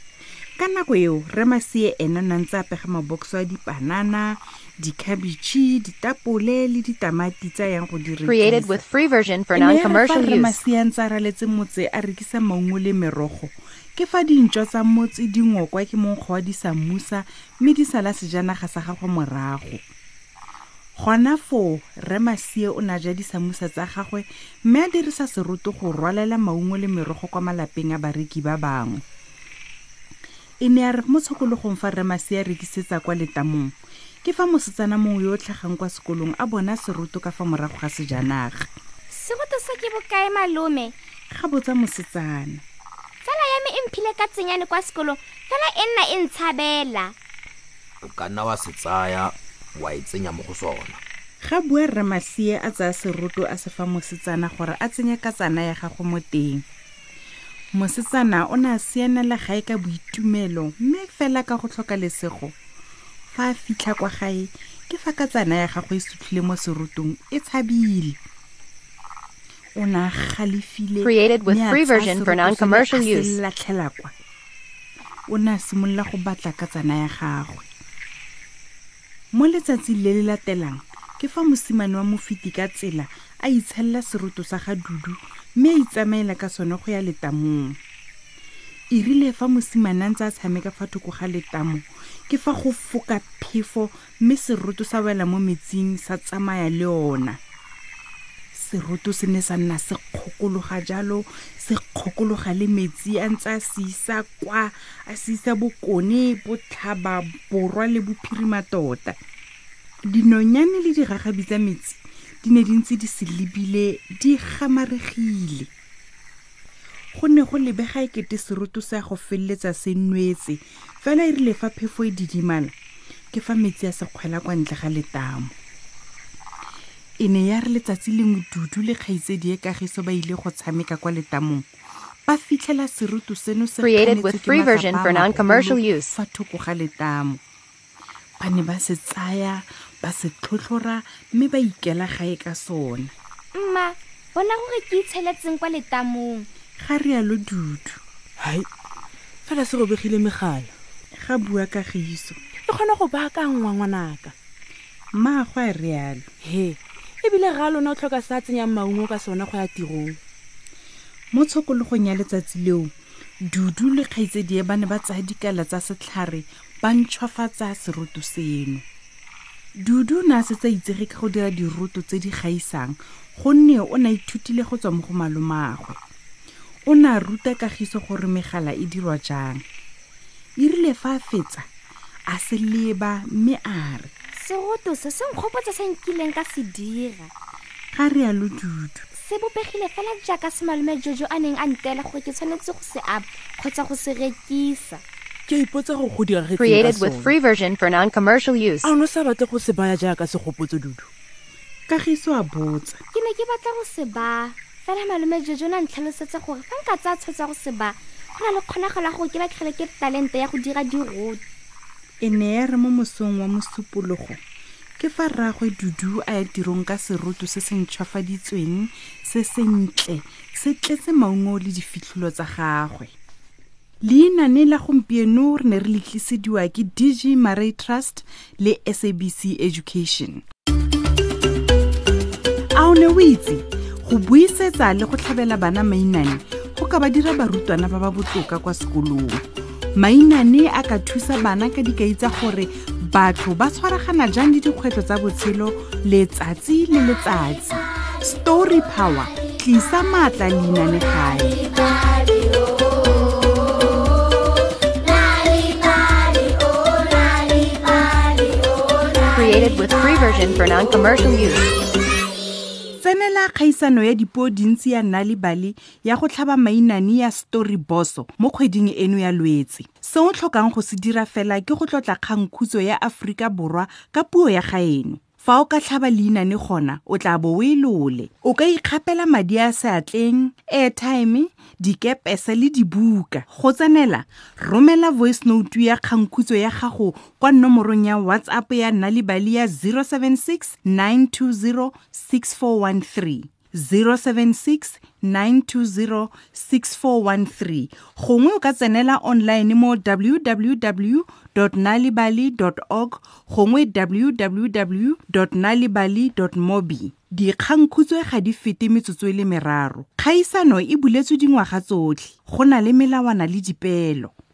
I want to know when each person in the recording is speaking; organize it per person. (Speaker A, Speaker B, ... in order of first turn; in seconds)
Speaker A: 0.6-8.8, 9.5-19.8, 21.0-29.0, 30.6-33.7, 34.2-38.7, 41.3-42.6, 51.4-56.6, 57.7-62.5, 63.3-68.2, 69.8-74.1, 75.3-77.7, 79.3-87.8, 88.9-97.4, 98.5-109.2, 110.1-115.7, 117.1-122.7, 123.3-125.5, 127.2-131.7, 132.3-137.4, 138.4-143.1, 146.8-148.0, 151.2-152.4, 155.2-156.2, 161.3-162.9, 163.5-168.8, 169.8-176.0, 176.8-179.6, 180.6-181.7, 182.3-184.1, 187.9-189.1, 201.9-203.0, 212.2-214.4, 215.0-223.1, 224.0-230.4, 232.7-239.4, 239.9-251.6, 263.0-314.3
Speaker B: 8.2-10.6, 71.0-73.4, 133.8-136.1, 196.6-198.9, 259.3-261.7
Speaker C: 39.1-40.9, 43.2-47.1, 143.5-146.5, 184.3-187.3, 189.2-195.0, 203.1-211.4, 251.8-254.5, 255.0-259.7
Speaker D: 48.0-51.0
Speaker E: 148.4-148.7, 149.5-150.7, 152.7-154.3, 156.4-160.2, 195.5-197.3, 198.8-201.1